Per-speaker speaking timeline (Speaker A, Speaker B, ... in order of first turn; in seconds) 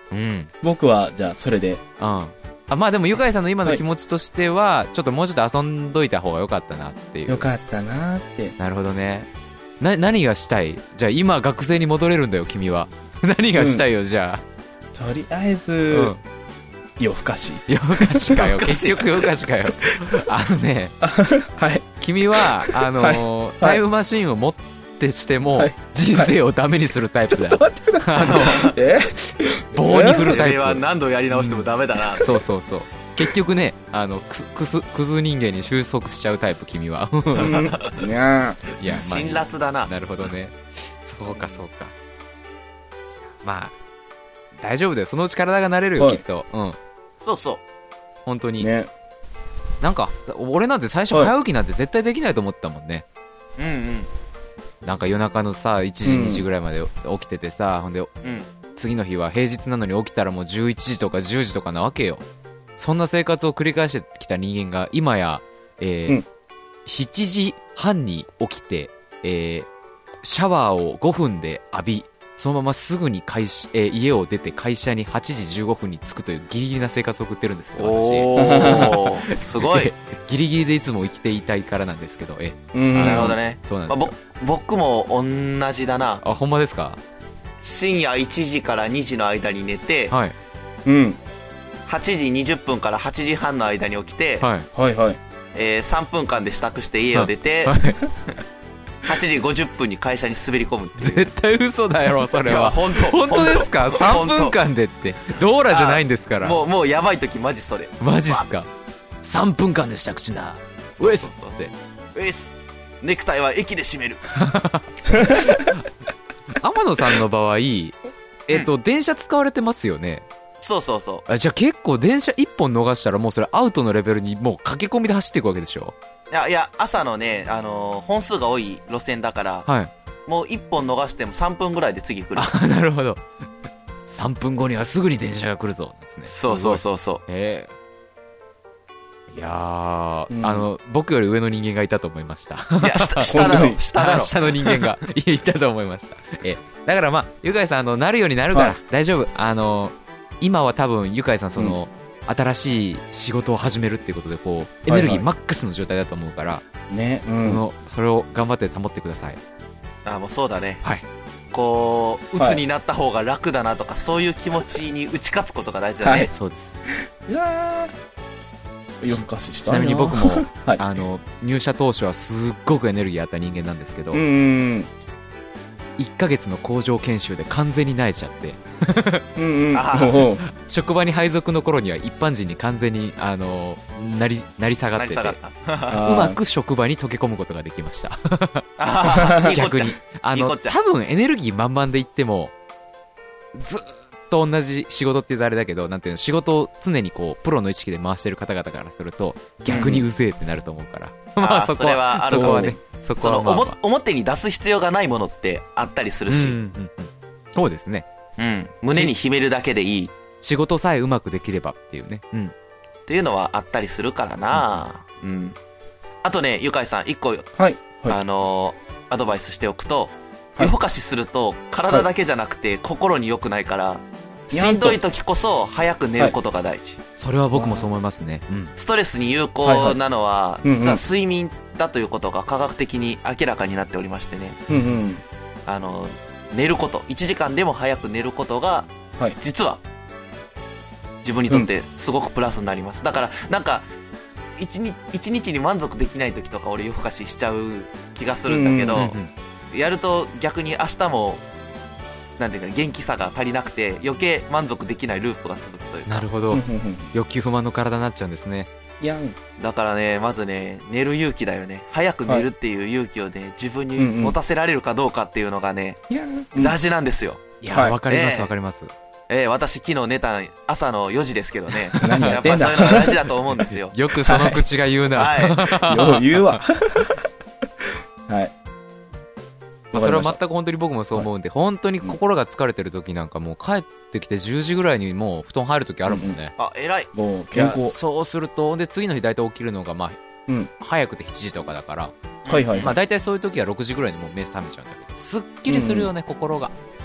Speaker A: 0.1-0.5, 2.0-7.5, 8.6-9.3, 9.8-14.4, 15.9-16.2, 17.7-21.0, 22.0-28.8, 29.7-37.6, 38.7-41.9, 43.4-43.7, 44.6-46.8, 48.2-48.7, 49.8-53.0, 54.8-58.1, 58.8-62.2, 62.8-66.2, 66.8-69.7, 70.2-84.2, 86.2-87.0, 94.4-94.7, 97.1-98.0, 101.0-106.6, 108.0-108.7, 109.2-111.7, 114.3-115.9, 116.5-120.3, 121.3-125.9, 129.7-129.9, 132.3-133.2, 134.1-137.7, 139.3-156.6, 157.4-159.4, 166.3-166.8, 169.1-174.2, 176.0-179.3, 180.4-185.4, 185.9-188.7, 189.3-192.5, 193.6-203.7, 206.3-208.1, 210.4-212.5, 227.2-228.7, 248.9-249.3, 256.1-258.7, 267.6-268.9, 271.7-276.6, 279.9-286.6, 287.5-290.2, 290.8-292.1, 292.7-296.7
Speaker B: 0.6-1.8, 7.3-8.6, 13.5-13.8, 14.9-16.1, 17.0-18.4, 21.0-23.8, 25.5-26.3, 27.3-30.4, 37.4-38.7, 46.0-46.2, 48.6-48.9, 56.0-56.5, 78.3-78.9, 82.7-83.4, 90.8-91.2, 94.7-95.2, 140.3-140.7, 143.3-143.8, 148.5-148.8, 154.9-155.3, 156.9-157.6, 162.4-162.6, 166.0-166.3, 167.2-167.9, 169.0-171.0, 174.1-174.9, 179.3-180.4, 185.9-186.4, 189.1-189.4, 199.7-200.0, 202.3-202.8, 217.6-218.2, 224.5-225.0, 227.5-227.9, 229.6-230.0, 230.6-231.0, 234.7-235.2, 248.5-249.1, 256.5-257.1, 259.0-259.4, 263.9-264.4, 266.1-266.8, 267.7-268.0, 272.0-273.2, 274.2-274.6, 275.7-277.2, 278.3-278.5, 279.9-280.4, 286.1-286.4, 287.1-288.0, 290.5-290.7, 292.5-292.9, 295.6-296.1
Speaker C: 18.4-19.3, 28.2-28.7, 30.2-32.3, 37.4-38.0, 38.9-40.0, 47.2-47.6, 53.6-54.1, 58.2-58.5, 77.8-79.9, 83.0-86.2, 87.6-90.1, 91.8-94.5, 95.5-97.8, 99.0-101.3, 102.4-104.6, 105.7-108.5, 110.9-111.5, 112.1-114.3, 120.6-121.2, 126.3-129.7, 130.3-132.6, 136.2-137.2, 142.8-145.0, 160.0-160.8, 161.5-166.3, 179.7-180.2, 184.9-186.0, 188.8-190.8, 199.7-200.0, 201.4-206.6, 208.4-210.1, 213.1-215.6, 216.2-217.5, 218.1-227.0, 228.8-234.6, 235.7-239.8, 241.2-243.8, 244.6-249.2, 249.7-251.4, 252.4-256.3, 259.6-266.0, 266.6-267.4, 268.1-268.5, 269.3-274.0, 275.1-275.7, 286.6-287.1, 292.4-293.0